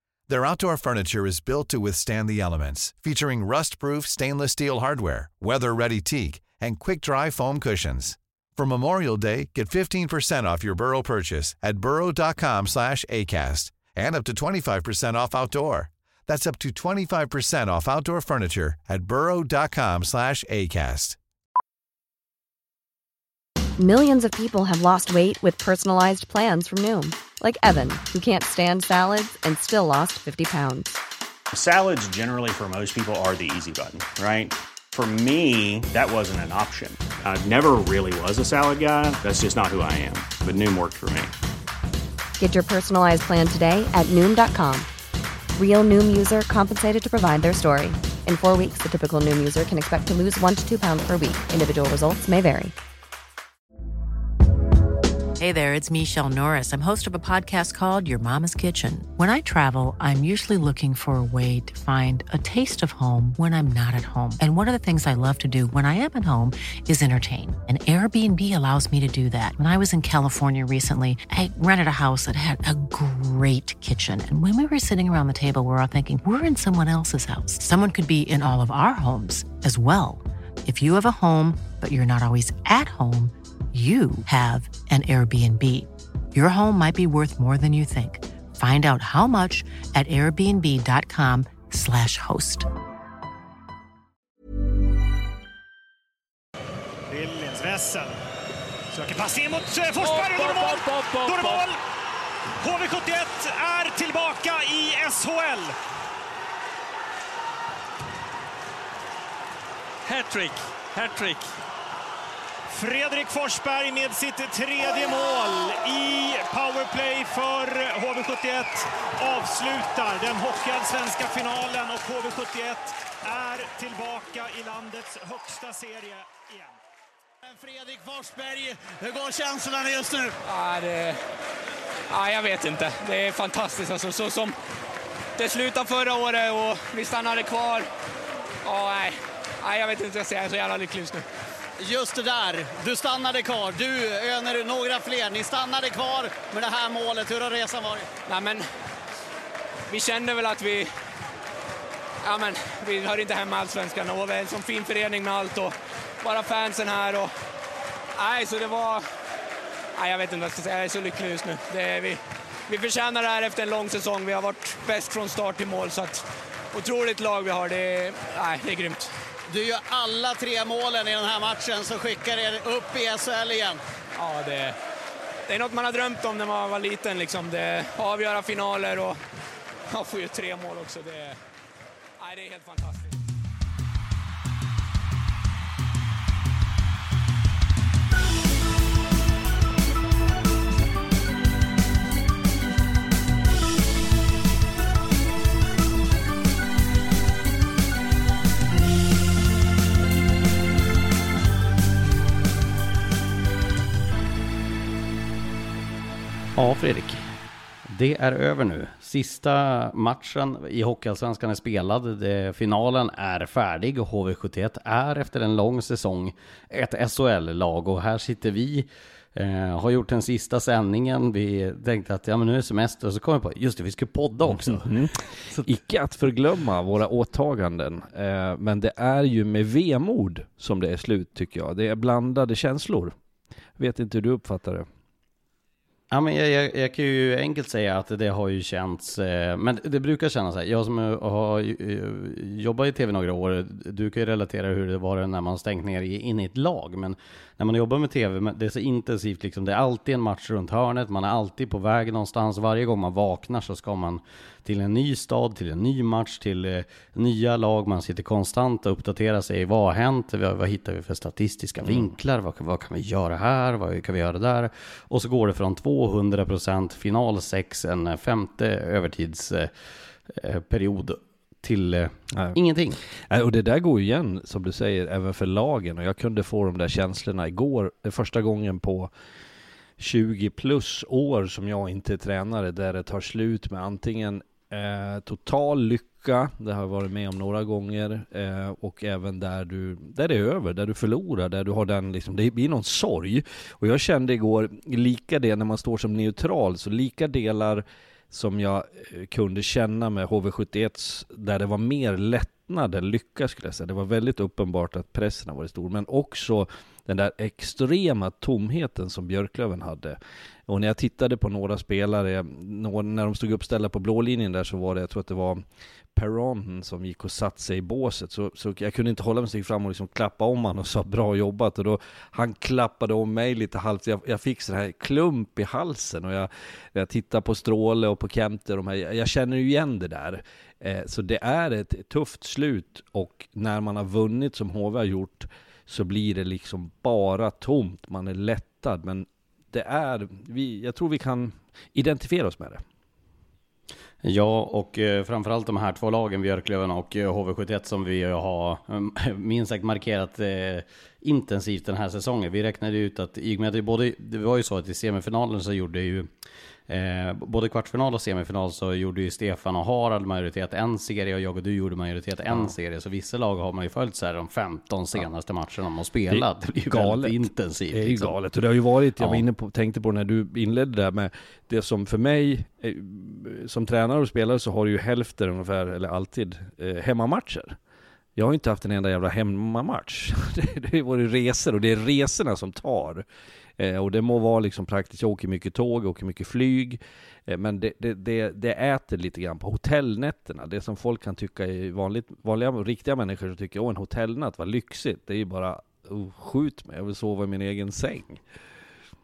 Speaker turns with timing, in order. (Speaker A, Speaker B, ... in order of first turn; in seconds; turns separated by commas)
Speaker A: 0.3-21.2, Speaker B: 23.8-31.0, Speaker C: 31.5-41.3, Speaker B: 42.4-44.9, Speaker B: 45.5-52.7, Speaker D: 55.4-92.7, Speaker E: 97.1-98.2, Speaker E: 98.9-101.8, Speaker F: 100.0-101.7, Speaker E: 102.6-105.8, Speaker F: 110.0-111.5, Speaker E: 112.7-126.7, Speaker G: 127.5-130.3, Speaker F: 130.4-131.2, Speaker F: 132.1-134.6, Speaker F: 135.4-137.9, Speaker F: 138.6-141.2, Speaker G: 141.8-148.1, Speaker F: 148.3-148.7, Speaker F: 149.9-150.9, Speaker F: 152.2-157.3, Speaker F: 158.2-159.1, Speaker F: 159.9-169.1, Speaker G: 169.5-173.8, Speaker F: 174.2-174.8, Speaker F: 175.5-179.2, Speaker F: 179.9-181.4, Speaker F: 182.2-183.2, Speaker H: 206.6-207.2, Speaker H: 207.9-224.9, Speaker I: 224.5-233.2, Speaker I: 233.8-234.9, Speaker H: 236.1-269.7, Speaker H: 270.3-273.0, Speaker I: 273.3-279.1, Speaker I: 280.0-315.6, Speaker I: 316.1-342.8, Speaker H: 344.2-356.3, Speaker H: 356.9-368.3, Speaker I: 366.3-377.8, Speaker H: 369.2-369.4, Speaker I: 378.4-383.2, Speaker I: 383.8-398.4